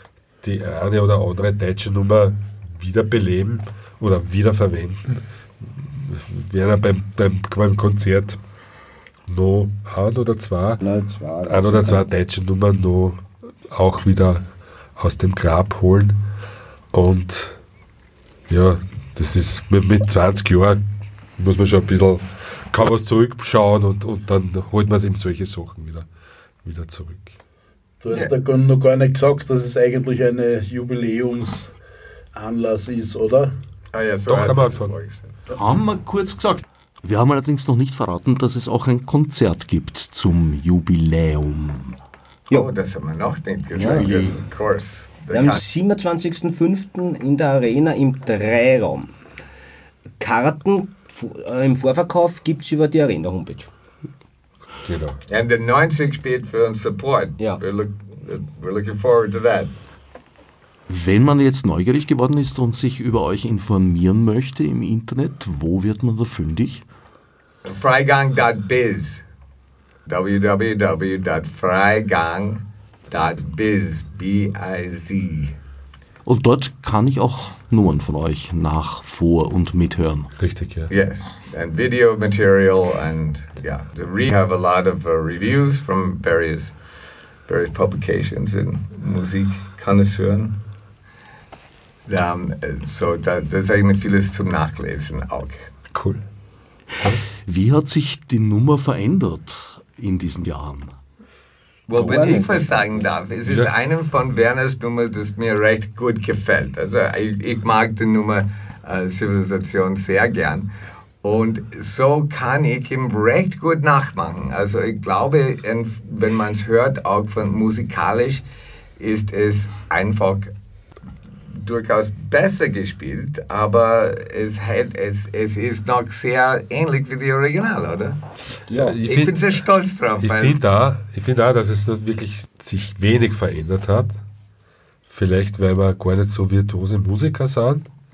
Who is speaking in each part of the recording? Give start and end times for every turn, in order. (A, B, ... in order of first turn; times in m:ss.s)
0:00.4-0:08.4 A
0:09.3-0:10.8 A
0:10.8-0:12.1 B
0:11.5-0:16.2 A
0:16.9-0:17.6 A
0:18.5-0:20.8 A
0:21.4-0:26.1 A
0:26.6-0:27.3 A
0:28.0-0:31.7 C
0:32.4-0:33.5 C
0:33.9-0:35.3 D
0:34.3-0:35.0 A
0:35.5-0:42.0 E
0:42.5-0:45.6 D
0:43.7-0:44.4 B
0:45.3-0:49.1 B
0:50.2-0:53.7 B
0:54.8-0:55.2 A
0:55.3-0:59.7 D
1:00.9-1:06.8 E
1:07.6-1:09.2 D
1:10.1-1:15.6 D
1:16.2-1:20.3 E
1:20.4-1:20.9 A
1:20.9-1:26.7 D
1:27.5-1:30.6 D
1:32.1-1:35.6 D
1:35.9-1:36.2 A
1:37.5-1:40.9 E
1:41.9-1:50.7 D
1:42.0-1:43.0 B
1:43.5-1:43.7 A
1:51.2-1:58.4 D
1:59.0-2:00.5 D
2:01.5-2:08.2 D
2:08.7-2:09.4 A
2:08.7-2:10.6 D
2:10.2-2:14.2 A
2:15.1-2:17.9 A